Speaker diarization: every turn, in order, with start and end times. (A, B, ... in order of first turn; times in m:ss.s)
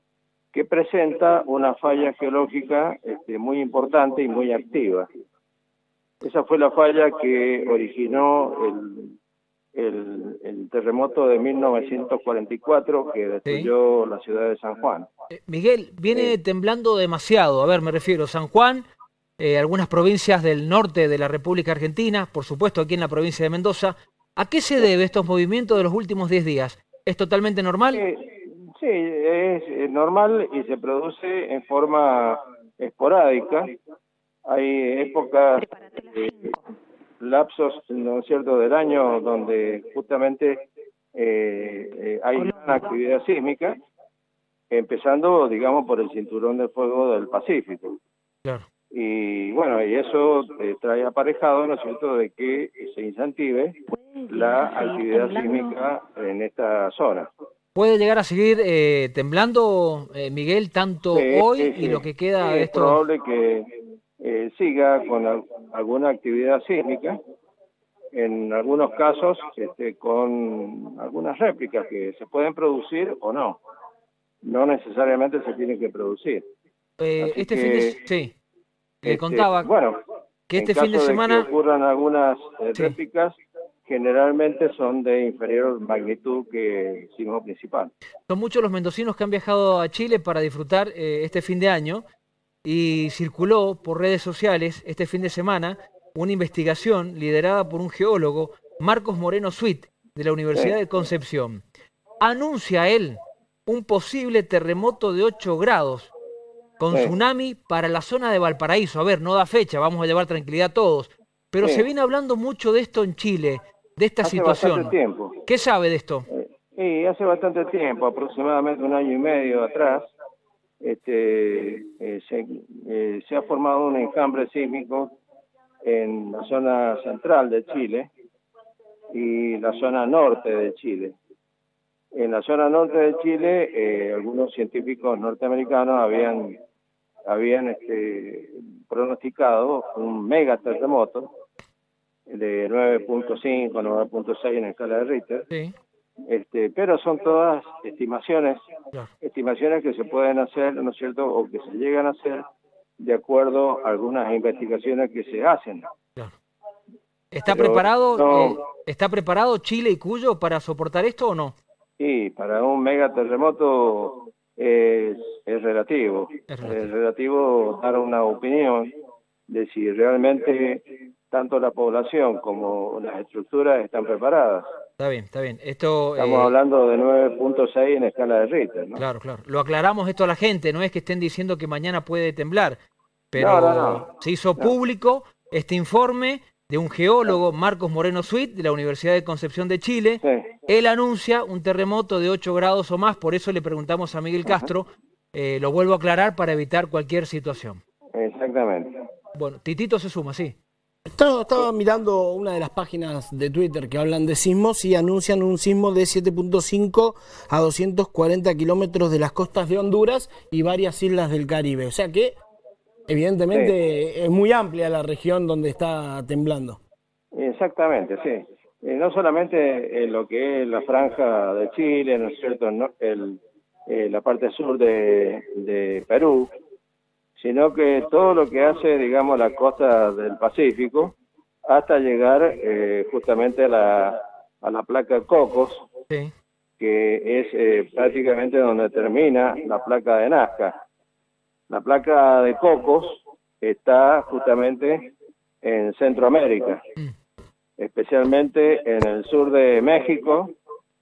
0:00.5-0:05.1 A
0:06.2-0:09.1 A
0:09.8-0:15.1 A
0:15.3-0:18.9 B
0:19.4-0:28.0 B
0:27.9-0:33.7 A
0:34.5-0:36.6 A
0:37.2-0:40.6 A
0:41.2-0:43.8 A
0:44.7-0:48.0 A
0:48.9-0:57.3 A
0:57.8-1:03.0 B
1:01.1-1:07.2 A
1:08.1-1:13.6 A
1:14.4-1:16.4 A
1:17.0-1:18.3 B
1:17.2-1:18.0 A
1:19.0-1:19.7 B
1:19.0-1:20.0 A
1:20.5-1:21.5 B
1:20.6-1:23.4 A
1:23.9-1:27.9 A
1:28.3-1:32.1 B
1:32.6-1:41.6 B
1:42.2-1:46.1 B
1:46.8-1:54.9 B
1:54.2-1:55.4 A
1:55.5-1:56.3 B
1:56.3-2:00.0 A
2:00.8-2:05.1 A
2:05.8-2:08.1 A
2:09.1-2:11.1 A
2:12.2-2:16.6 A
2:17.3-2:21.3 A
2:22.3-2:25.5 A
2:26.3-2:28.6 A
2:29.2-2:32.4 A
2:33.0-2:35.8 A
2:37.3-2:41.6 B
2:37.5-2:38.6 A
2:42.0-2:48.9 A
2:46.5-2:46.8 B
2:49.5-2:54.7 A
2:55.0-2:56.5 B
2:56.2-2:59.0 A
2:59.0-3:02.8 B
3:03.3-3:17.8 B
3:03.4-3:04.1 A
3:18.2-3:19.0 A
3:19.4-3:20.6 B
3:21.0-3:32.4 C
3:33.1-3:36.8 C
3:37.3-3:46.5 A
3:47.4-3:51.1 A
3:51.7-3:55.8 A
3:56.8-4:00.8 A
4:01.7-4:05.1 A
4:05.6-4:06.8 A
4:07.8-4:10.5 A